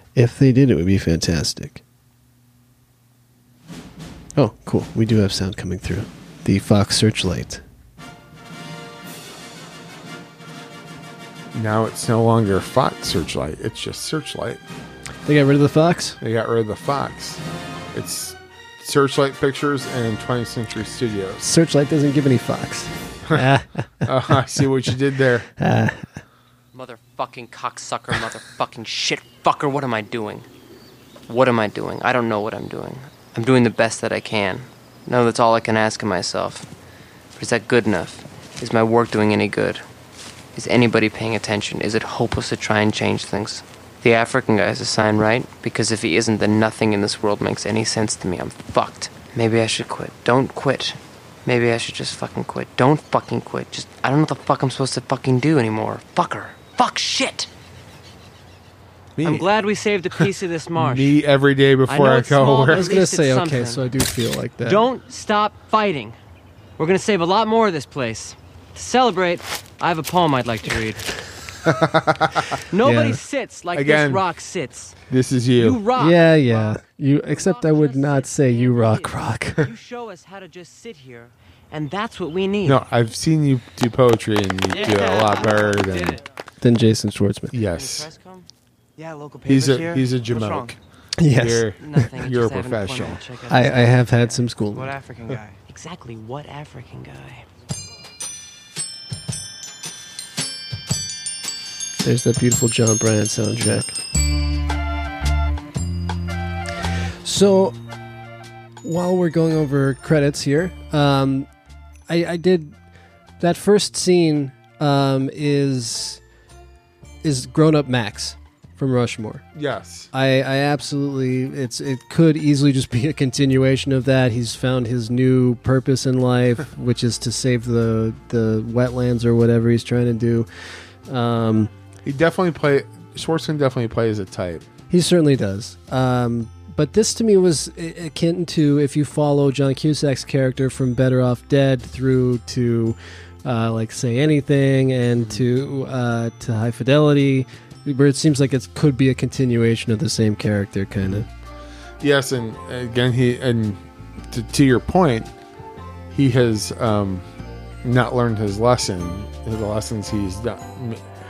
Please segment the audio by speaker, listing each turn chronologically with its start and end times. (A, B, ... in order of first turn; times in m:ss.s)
0:00.2-0:01.8 A
0:04.4-0:07.6 A
0:11.5-0:14.6 B
0:15.2-0:16.2 A
0:16.2-0:17.4 B
0:17.9-0:21.4 B
0:21.4-0:24.6 A
0:24.0-0:25.5 B
0:25.6-0:26.2 A
0:26.7-0:30.4 C
0:31.3-0:36.6 C
0:37.4-0:39.8 C
0:40.6-0:57.5 C
0:59.2-0:59.5 B
0:59.2-1:01.1 C
1:00.2-1:02.9 B
1:01.9-1:03.8 C
1:02.7-1:04.8 A
1:04.6-1:06.2 C
1:06.8-1:11.0 C
1:11.6-1:12.5 B
1:12.7-1:14.9 C
1:12.8-1:13.2 A
1:13.7-1:14.2 B
1:15.1-1:15.8 B
1:15.6-1:16.8 C
1:15.9-1:19.7 A
1:17.3-1:22.8 C
1:22.6-1:26.2 B
1:24.7-1:26.2 C
1:26.6-1:27.5 A
1:27.5-1:28.1 B
1:27.7-1:28.5 C
1:29.0-1:30.7 C
1:29.4-1:30.8 B
1:31.2-1:31.7 A
1:31.3-1:33.2 B
1:31.8-1:37.4 C
1:33.5-1:34.9 A
1:42.0-1:43.9 A
1:47.2-1:47.8 A
1:48.8-1:51.5 A
1:52.1-1:52.7 A
1:53.4-1:56.2 A
1:57.2-1:59.4 A
1:59.5-2:00.1 B
2:00.1-2:10.5 A
2:11.1-2:11.7 A
2:12.0-2:14.7 B
2:14.9-2:31.3 A
2:32.0-2:33.8 B
2:34.3-2:35.3 B
2:36.1-2:37.2 B
2:37.8-2:41.0 B